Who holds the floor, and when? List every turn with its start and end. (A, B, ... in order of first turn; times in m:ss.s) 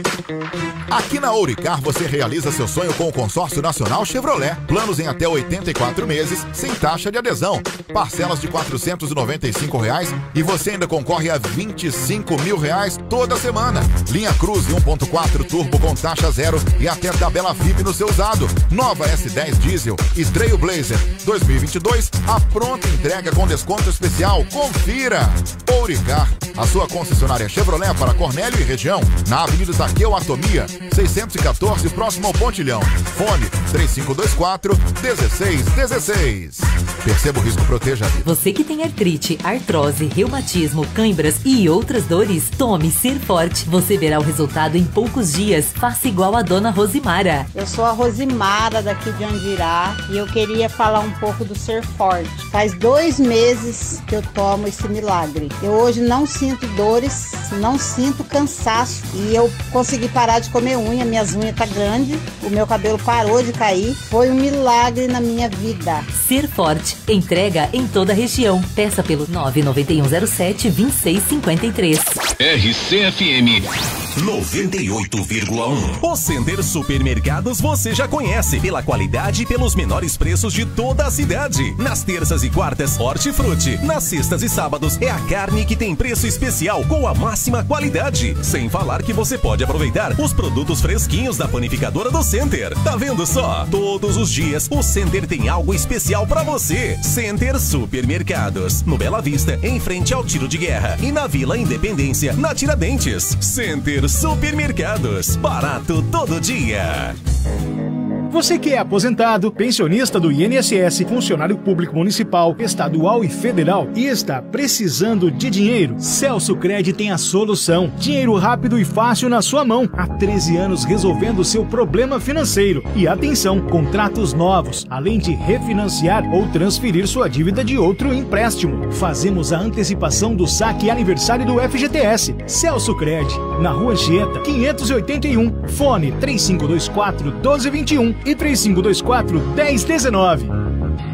0:00.9-0:38.3 A
0:38.2-0:47.5 B
0:47.5-1:06.1 C
1:06.1-1:12.1 B
1:12.4-1:16.0 D
1:16.0-1:47.2 E
1:48.3-2:20.5 F